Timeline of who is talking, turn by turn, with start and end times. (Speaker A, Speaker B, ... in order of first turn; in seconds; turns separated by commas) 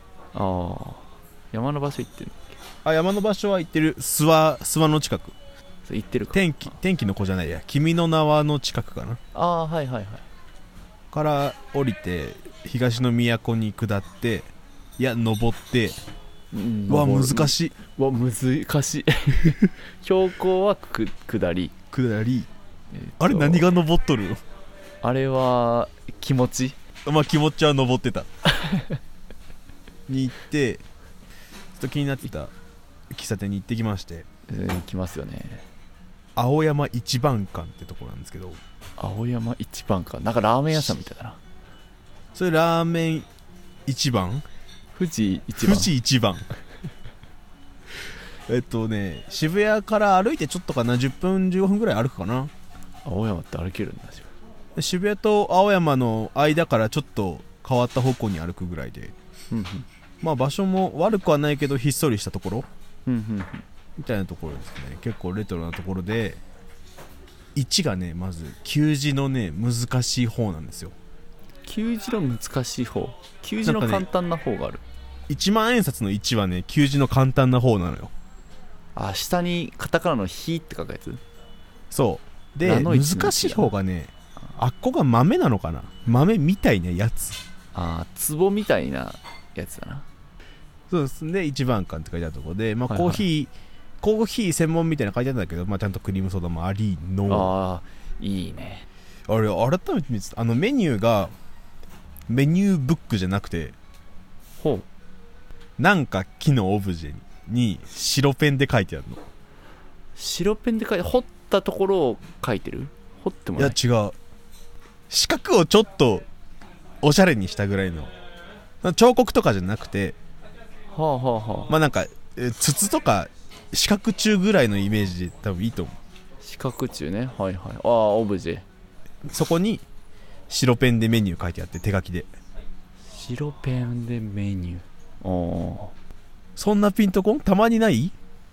Speaker A: 0.3-2.6, Speaker B: 2.8-5.3, Speaker A: 5.9-6.7, Speaker B: 6.3-9.2, Speaker A: 9.3-10.2, Speaker B: 11.1-16.0, Speaker A: 16.5-21.7, Speaker B: 16.9-17.7, Speaker B: 21.9-22.5, Speaker A: 22.9-23.7, Speaker B: 23.2-24.4, Speaker A: 25.0-26.8, Speaker B: 27.1-28.3, Speaker A: 28.6-29.0, Speaker B: 30.1-30.9, Speaker B: 31.8-32.5, Speaker B: 33.1-34.3, Speaker A: 34.5-35.6, Speaker B: 36.4-38.6, Speaker A: 39.0-41.4, Speaker B: 42.3-43.3, Speaker B: 43.9-44.5, Speaker A: 45.0-45.9, Speaker B: 45.6-46.5, Speaker B: 48.5-52.5, Speaker A: 53.0-54.3, Speaker B: 54.8-59.1, Speaker A: 59.5-59.9, Speaker B: 60.2-62.7, Speaker A: 63.1-63.6, Speaker B: 64.0-66.4, Speaker B: 67.5-70.9, Speaker A: 71.7-74.8, Speaker B: 73.7-74.1, Speaker B: 75.3-78.1, Speaker A: 79.0-81.2, Speaker B: 81.9-87.4, Speaker A: 82.6-83.7, Speaker A: 87.7-90.1, Speaker B: 90.9-97.5, Speaker A: 92.9-93.2, Speaker A: 97.3-98.9, Speaker B: 99.3-101.3, Speaker B: 102.3-103.8, Speaker A: 104.6-104.9, Speaker B: 105.8-109.2, Speaker A: 110.2-113.8, Speaker B: 113.6-114.2, Speaker B: 115.1-116.3, Speaker B: 117.0-118.1, Speaker B: 118.8-120.2, Speaker A: 120.9-121.7, Speaker B: 121.7-126.0, Speaker A: 126.4-128.7, Speaker B: 129.3-129.8, Speaker B: 130.5-132.3, Speaker A: 133.1-135.9, Speaker B: 136.6-138.1